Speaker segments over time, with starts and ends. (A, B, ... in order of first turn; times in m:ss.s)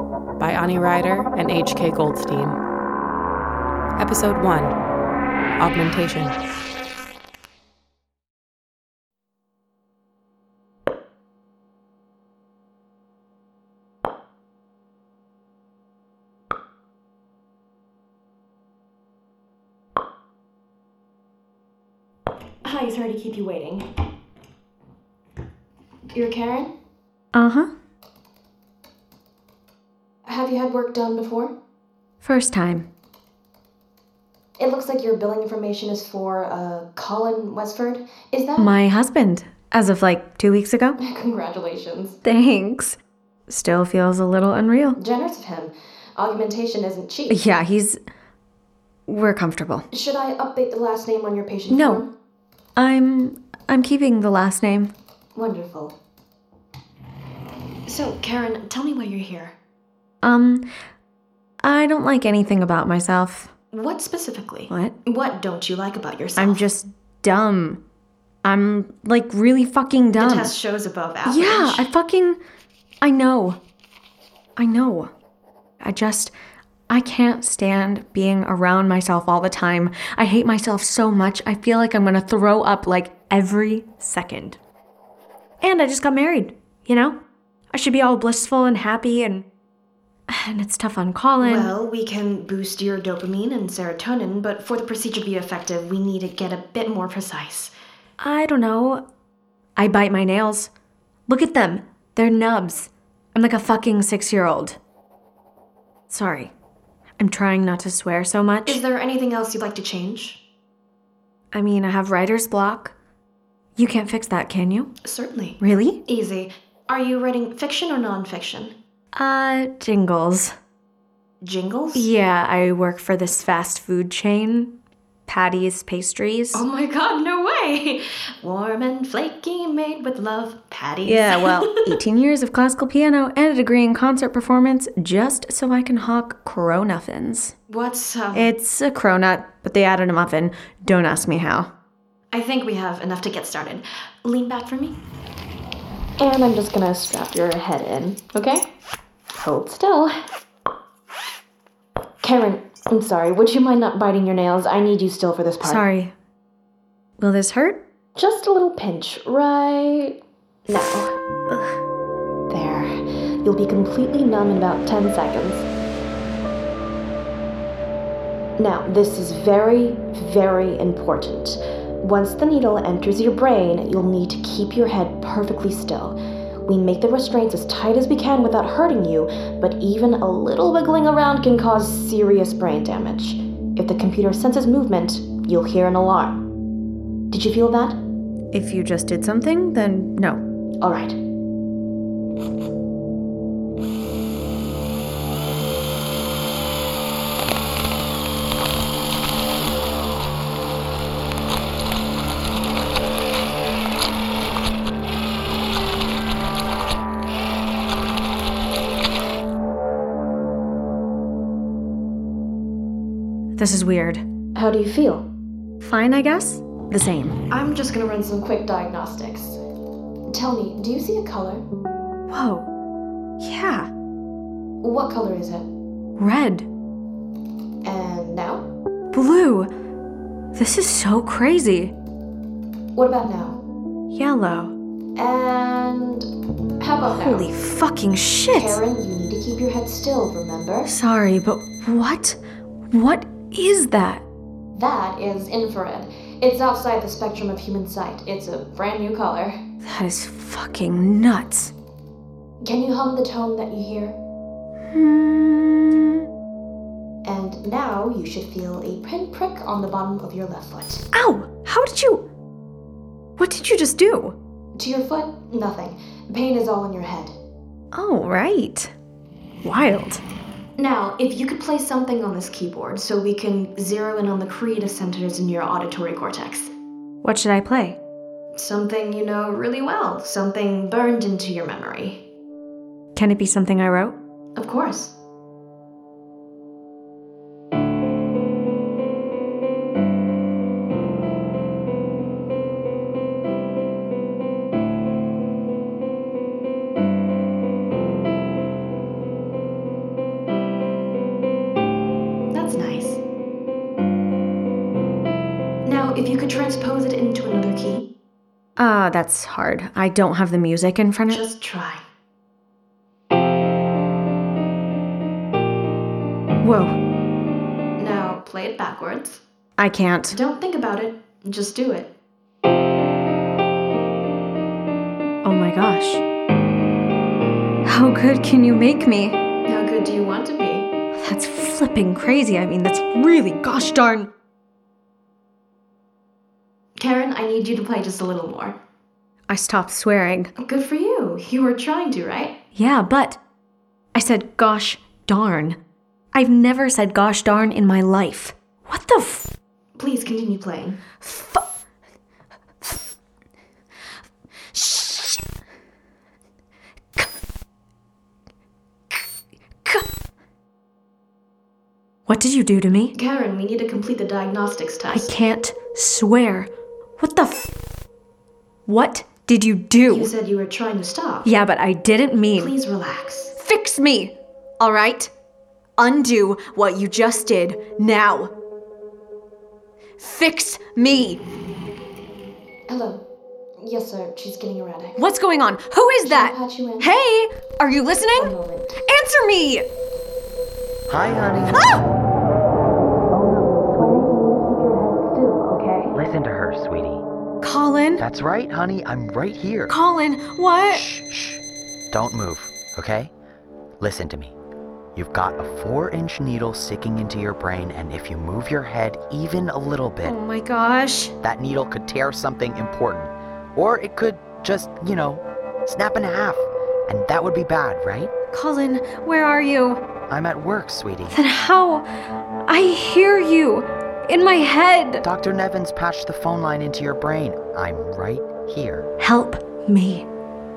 0:00.4-0:02.6 A
0:04.0-0:04.8 A
0:05.6-0:06.4 A
0:22.6-0:23.9 B
0:26.1-0:26.7 B
0:27.3-0:27.7 C
0:30.2-0:31.5 B
0:32.2-0:32.9 C
0:34.6-0:38.8 B
0:38.6-0:41.0 C
0:41.0-0:42.2 B
0:42.2-0:43.0 C
0:43.5-0:45.0 C
0:45.0-0:47.4 B
0:47.3-0:48.0 C
0:49.1-0:49.8 C
0:49.9-0:52.1 B
0:51.7-0:52.0 C
0:52.8-0:54.9 C
0:55.3-0:55.9 B
0:57.9-0:59.5 B
1:00.2-1:00.7 C
1:01.6-1:03.5 C
1:03.7-1:06.6 B
1:06.4-1:07.8 C
1:08.4-1:10.5 C
1:10.2-1:11.9 B
1:11.2-1:12.4 C
1:13.0-1:13.6 C
1:14.6-1:15.1 C
1:15.8-1:16.3 C
1:16.9-1:24.6 C
1:25.6-1:27.2 C
1:27.7-1:29.4 C
1:30.3-1:31.7 C
1:31.4-1:37.7 B
1:38.2-1:39.0 C
1:39.8-1:40.7 C
1:41.3-1:44.8 C
1:46.1-1:46.5 C
1:47.2-1:48.8 C
1:48.6-1:50.4 B
1:51.5-1:52.9 C
1:53.8-1:54.9 C
1:55.0-1:58.7 B
1:55.6-1:56.0 C
1:59.2-2:00.5 C
2:01.4-2:02.1 B
2:01.9-2:04.7 C
2:05.3-2:06.6 C
2:06.5-2:11.9 B
2:11.0-2:17.5 C
2:17.7-2:18.5 B
2:18.3-2:21.7 C
2:22.3-2:25.0 B
2:26.2-2:28.6 B
2:29.4-2:30.1 B
2:32.2-2:35.8 B
2:35.6-2:36.1 C
2:37.2-2:37.8 C
2:38.2-2:41.1 B
2:42.5-2:45.6 B
2:48.6-2:56.2 B
2:56.7-3:06.4 B
3:07.3-3:08.0 B
3:08.5-3:10.4 C
3:10.8-3:11.2 B
3:33.6-3:34.2 C
3:34.5-3:35.2 B
3:35.8-3:37.4 C
3:37.5-3:39.6 B
3:40.3-3:41.6 B
3:42.3-3:42.7 C
3:43.4-3:43.9 C
3:44.8-3:45.7 B
3:46.2-3:46.7 C
3:47.8-3:48.6 B
3:49.1-3:49.7 C
3:50.5-3:51.9 C
3:52.9-3:53.6 B
3:54.1-3:54.7 C
3:55.2-3:56.2 B
3:56.8-3:57.5 B
3:57.1-3:58.8 C
3:58.5-4:00.9 B
4:00.8-4:02.4 C
4:02.9-4:04.2 C
4:04.7-4:09.6 B
4:09.8-4:11.7 C
4:12.6-4:14.2 B
4:14.9-4:16.2 C
4:17.2-4:21.0 B
4:21.1-4:22.2 C
4:23.4-4:24.4 C
4:24.8-4:27.3 B
4:27.9-4:28.9 C
4:29.6-4:30.2 C
4:30.8-4:36.7 B
4:37.2-4:38.0 C
4:38.6-4:42.2 B
4:43.1-4:44.2 C
4:44.6-4:45.1 B
5:02.5-5:03.2 B
5:05.8-5:08.1 B
5:08.8-5:11.4 C
5:11.3-5:12.0 B
5:16.6-5:17.0 C
5:18.0-5:19.4 B
5:19.8-5:20.4 C
5:20.3-5:22.1 B
5:25.4-5:26.2 C
5:27.8-5:29.4 C
5:29.6-5:30.9 B
5:31.1-5:34.3 C
5:37.0-5:38.8 B
5:39.5-5:40.5 C
5:40.6-5:42.5 B
5:42.7-5:43.4 C
5:44.1-5:45.8 C
5:46.3-5:49.5 C
5:50.0-5:51.0 B
5:51.2-5:51.6 C
5:54.7-5:55.4 C
6:02.3-6:03.1 C
6:03.1-6:05.3 B
6:05.1-6:07.7 C
6:08.8-6:10.3 C
6:10.1-6:11.5 B
6:11.4-6:12.7 C
6:12.5-6:13.5 B
6:13.5-6:15.3 C
6:16.0-6:18.5 C
6:20.2-6:21.4 C
6:22.9-6:23.2 B
6:23.8-6:25.2 B
6:25.2-6:28.5 C
6:26.2-6:27.1 B
6:28.3-6:29.0 B
6:29.0-6:29.8 C
6:31.1-6:32.0 D
6:31.7-6:32.0 C
6:34.4-6:36.1 B
6:36.1-6:37.2 D
6:37.6-6:38.2 C
6:38.2-6:39.9 D
6:39.9-6:41.0 C
6:40.8-6:43.3 D
6:44.0-6:44.5 D
6:45.1-6:50.4 D
6:50.2-6:51.3 C
6:51.4-6:58.3 D
6:58.5-7:00.0 C
7:00.3-7:01.4 D
7:01.3-7:02.0 C
7:02.7-7:05.2 C
7:05.2-7:09.1 D
7:09.2-7:10.3 C